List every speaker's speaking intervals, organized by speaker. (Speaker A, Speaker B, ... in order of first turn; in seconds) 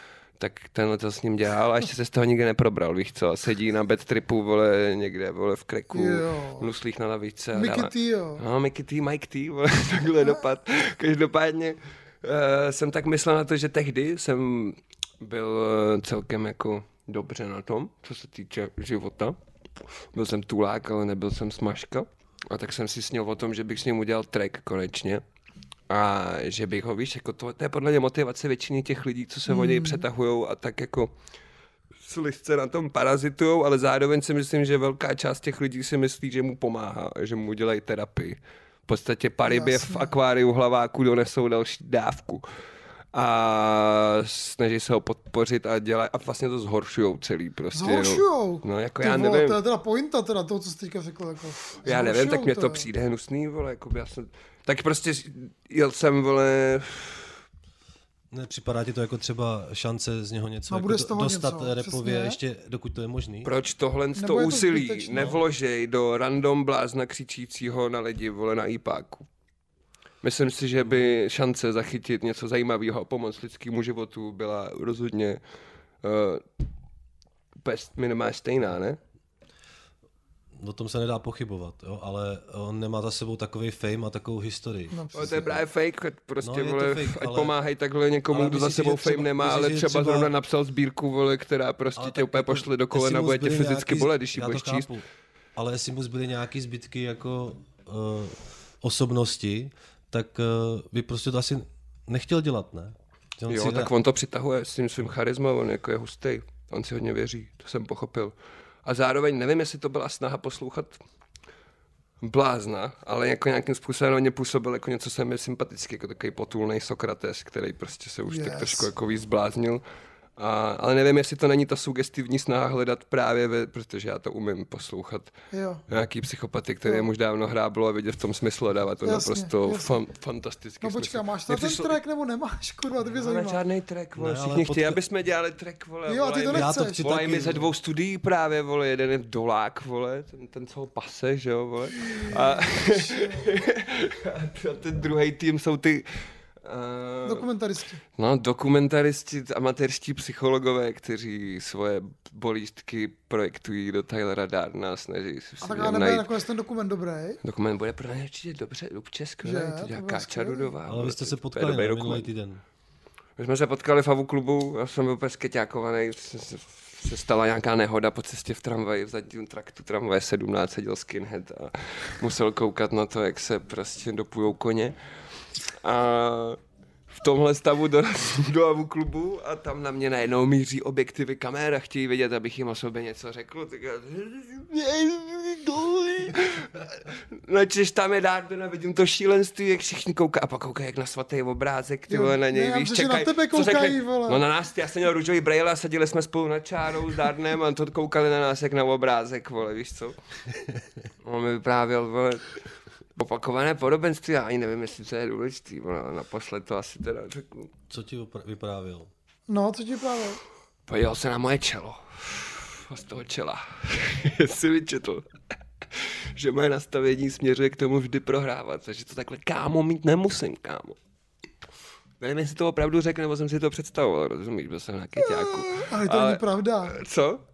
Speaker A: 0.4-19.4, 20.1-25.2, 25.9-31.1, 32.0-42.4, 43.1-49.6, 51.8-57.3, 63.4-69.2, 70.2-75.4, 76.0-76.4, 77.6-79.0, 85.1-94.9, 103.5-111.0, 112.2-119.8, 120.4-125.3, 125.9-132.0, 133.1-146.1, 146.6-147.5, 148.2-156.3, 157.4-162.3, 163.4-174.9, 175.8-176.6, 177.1-200.2, 201.2-202.4, 203.2-207.7, 210.9-215.2, 215.9-221.0, 222.2-227.4
Speaker B: 5.9-6.6, 7.5-8.4, 29.5-30.0, 39.5-40.1, 47.7-52.9, 60.7-62.4, 64.2-65.4, 84.9-85.4, 118.3-118.9, 125.5-125.8, 129.0-129.9, 130.8-133.6, 136.1-137.1, 142.0-143.5, 147.2-148.0, 155.6-157.4, 159.4-160.7, 192.1-194.4, 209.5-210.4, 225.2-226.9
Speaker C: 58.3-63.5, 80.6-85.6, 86.4-87.5, 88.3-90.3, 92.0-95.0, 95.5-103.9, 134.2-135.0, 136.5-137.7, 160.8-162.6, 207.9-209.1